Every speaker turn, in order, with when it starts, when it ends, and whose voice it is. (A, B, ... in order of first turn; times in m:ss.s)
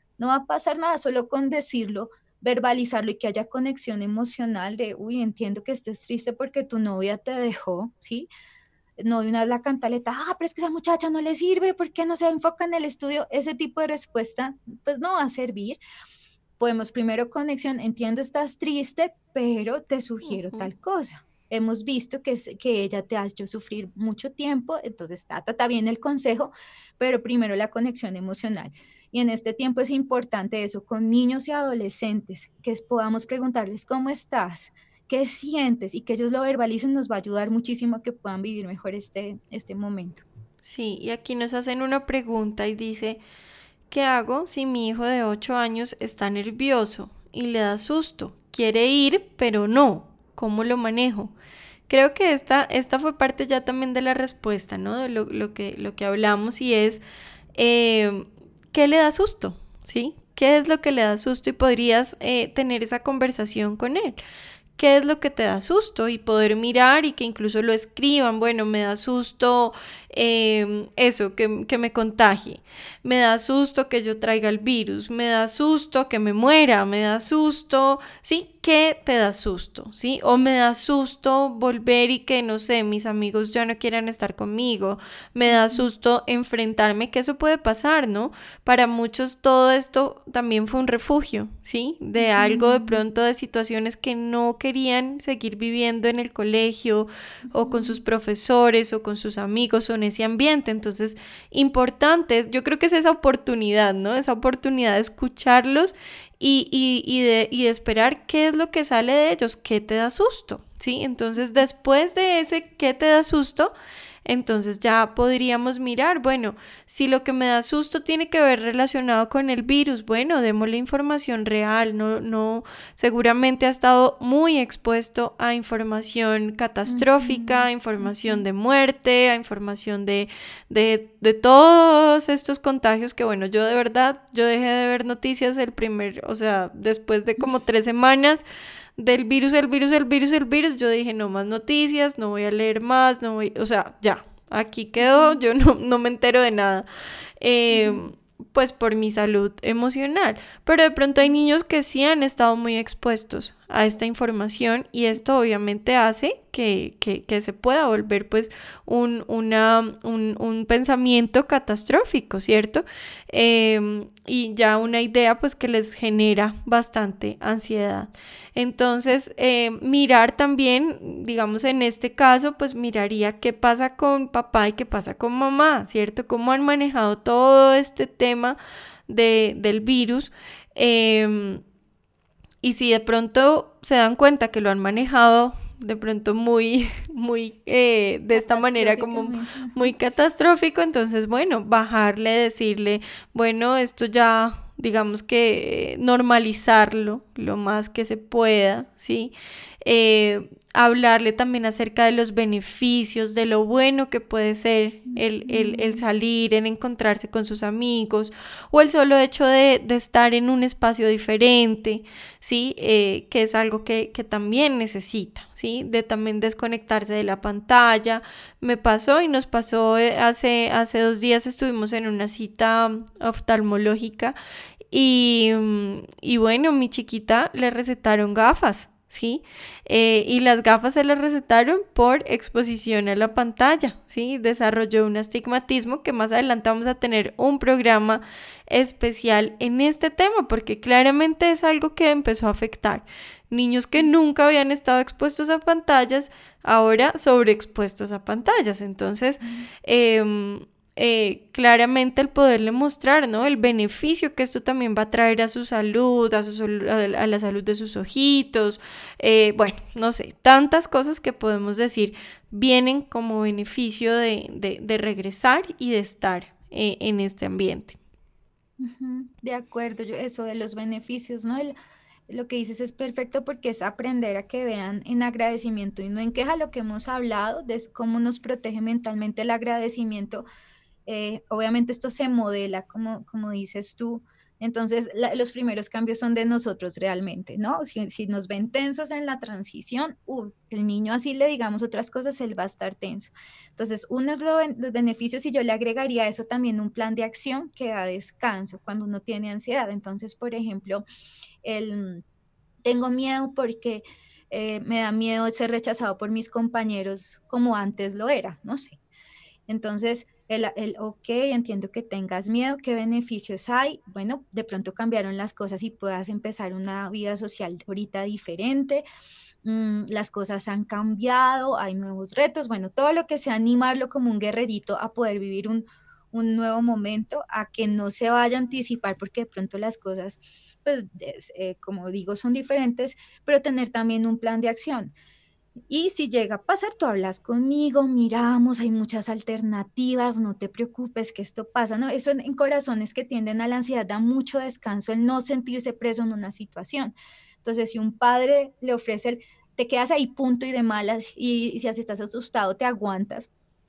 0:00.2-0:08.3 A
0:09.0-0:15.8 A
0:16.6-0:40.2 A
0:20.3-0:20.7 B
0:40.6-0:43.2 B
0:43.9-0:51.3 B
0:51.9-0:57.0 B
0:57.6-1:04.2 B
1:04.8-1:53.7 B
1:25.5-1:25.8 A
1:32.2-1:33.0 A
1:37.6-1:38.0 A
1:54.2-2:18.4 B
2:06.9-2:08.4 A
2:19.0-2:26.9 B
2:25.0-2:25.4 A
2:27.4-3:01.6 B
2:27.7-2:28.0 A
3:02.6-3:19.3 B
3:08.3-3:09.9 A
3:19.8-3:44.4 B
3:25.1-3:26.0 A
3:44.9-4:28.0 B
4:09.4-4:09.7 A
4:28.8-4:31.8 A
4:32.3-4:40.5 A
4:41.1-5:01.0 A
5:01.6-5:02.2 A
5:02.8-5:09.0 A
5:09.7-5:19.0 A
5:19.6-5:35.1 A
5:35.9-5:53.5 A